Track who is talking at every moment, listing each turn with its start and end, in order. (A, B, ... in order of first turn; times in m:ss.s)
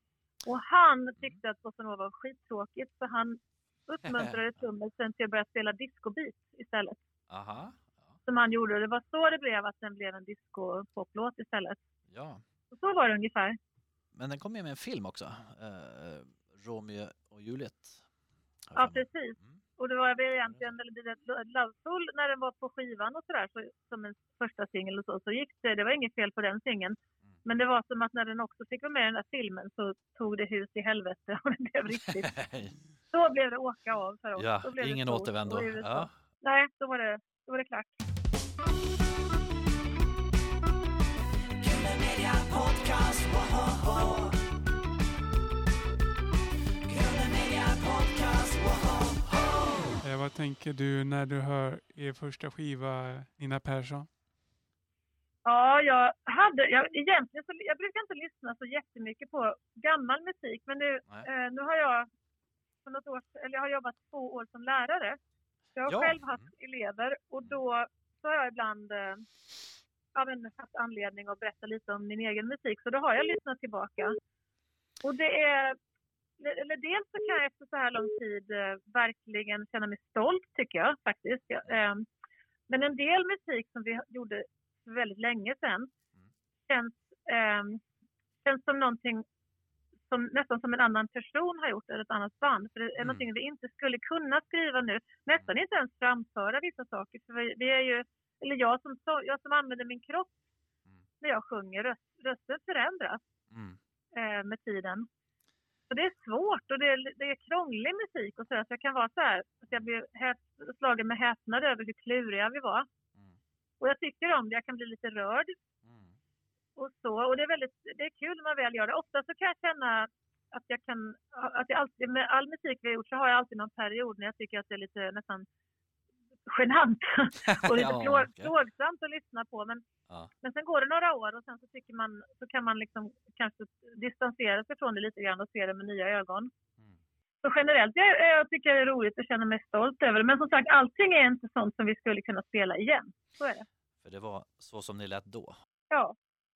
0:00.4-0:07.0 A
0:04.0-0:04.4 B
0:07.3-0:08.1 B
0:08.2-0:11.8 A
0:12.1-0:12.4 B
0:12.7-0:13.6 A
0:14.1-0:18.0 B
0:18.7-0:19.6 B
0:18.8-0:32.3 A
0:32.0-0:32.8 B
0:33.1-0:37.9 A
0:34.4-0:36.1 B
0:50.0-0:54.1 C
0:55.4-1:02.1 A
1:02.8-1:05.2 A
1:05.8-1:09.2 A
1:05.9-1:06.5 B
1:10.1-1:14.2 A
1:15.0-1:15.8 A
1:16.4-1:22.0 A
1:22.7-1:25.9 A
1:26.7-1:27.8 A
1:28.4-1:29.2 A
1:30.1-1:40.4 A
1:33.0-1:33.2 B
1:41.2-1:43.2 A
1:43.5-1:43.8 B
1:44.1-1:45.1 A
1:45.9-1:52.9 A
1:53.8-1:55.6 A
1:55.8-1:56.1 B
1:56.8-2:05.5 A
2:06.5-2:09.8 A
2:07.4-2:08.5 B
2:10.4-2:16.5 A
2:17.4-2:23.6 A
2:24.0-2:25.6 B
2:25.9-2:26.2 A